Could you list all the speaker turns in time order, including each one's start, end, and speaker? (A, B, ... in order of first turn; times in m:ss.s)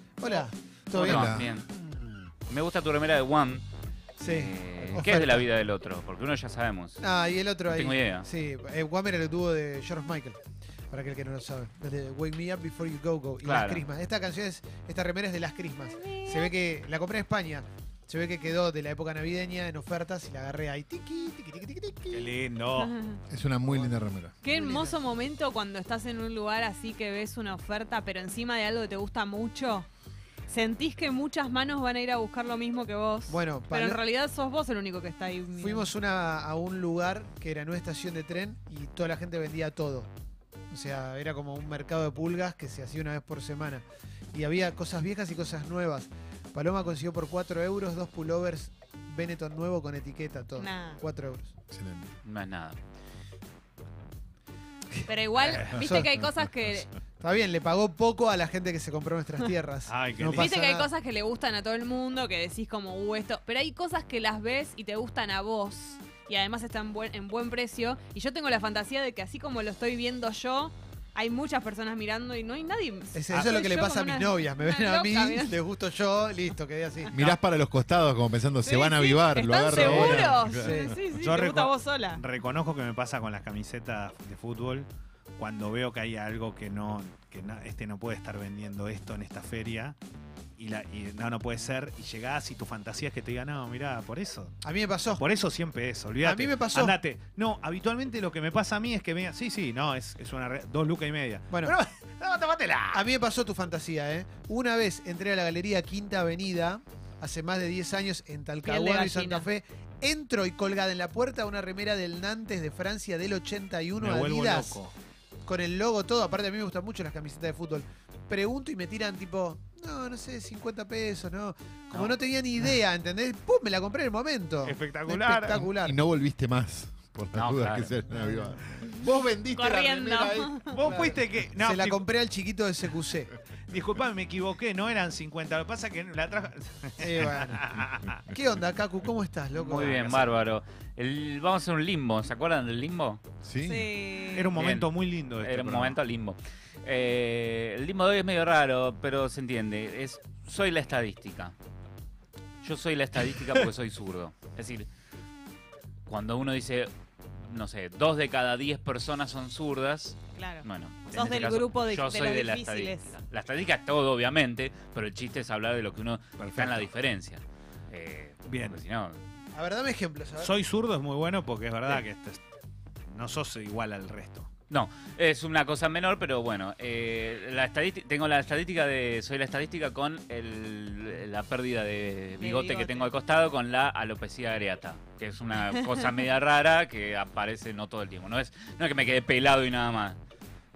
0:00.2-0:01.4 A
0:00.9-0:01.7 B
0:01.0-0:01.5 C
0:02.5-0:03.6 B
0:04.2-0:07.0 B
0:04.2-0:05.4 A
0:07.0-0:10.4 A
0:07.7-0:08.2 B
0:10.9-0:22.3 A
0:13.4-0:13.8 B
0:16.0-0:16.5 D
0:22.1-0:22.9 E
0:22.8-0:23.2 D
0:23.3-0:24.3 C
0:24.4-0:29.9 D
0:24.4-0:25.0 A
0:30.5-0:35.9 D
0:33.3-0:34.0 A
0:35.6-0:40.1 A
0:40.7-0:51.5 A
0:50.6-0:51.0 D
0:51.7-0:52.1 C
0:52.2-0:52.8 B
0:54.9-0:56.1 A
0:55.1-0:56.9 D
0:55.4-0:55.7 E
0:56.2-0:56.8 C
0:57.2-1:00.9 A
0:59.9-1:00.5 E
1:00.4-1:15.5 D
1:13.1-1:17.1 A
1:17.1-1:20.9 C
1:18.6-1:22.2 D
1:19.7-1:21.0 A
1:21.1-1:30.0 E
1:30.6-1:34.6 E
1:34.6-1:35.2 A
1:35.2-1:43.0 E
1:36.2-1:37.0 A
1:41.5-1:41.8 A
1:42.9-1:54.8 A
1:48.6-1:49.5 D
1:54.0-1:54.9 E
1:55.4-2:06.0 A
2:04.6-2:05.6 E
2:05.5-2:11.1 C
2:07.3-2:08.0 B
2:08.1-2:08.6 A
2:09.5-2:10.8 D
2:10.7-2:12.0 E
2:10.8-2:13.3 A
2:13.7-2:18.2 E
2:17.0-2:17.6 A
2:18.3-2:20.3 A
2:19.5-2:23.2 B
2:23.4-2:23.9 C
2:23.6-2:24.5 D
2:24.3-2:26.0 E
2:24.5-2:31.5 B
2:32.6-2:34.9 B
2:36.1-2:36.9 B
2:37.4-2:49.2 B
2:40.3-2:43.1 D
2:46.4-2:46.9 E
2:48.5-2:48.8 E
2:49.5-2:50.5 A
2:50.4-2:52.4 E
2:53.1-2:54.5 E
2:54.7-3:10.2 B
3:02.4-3:03.1 D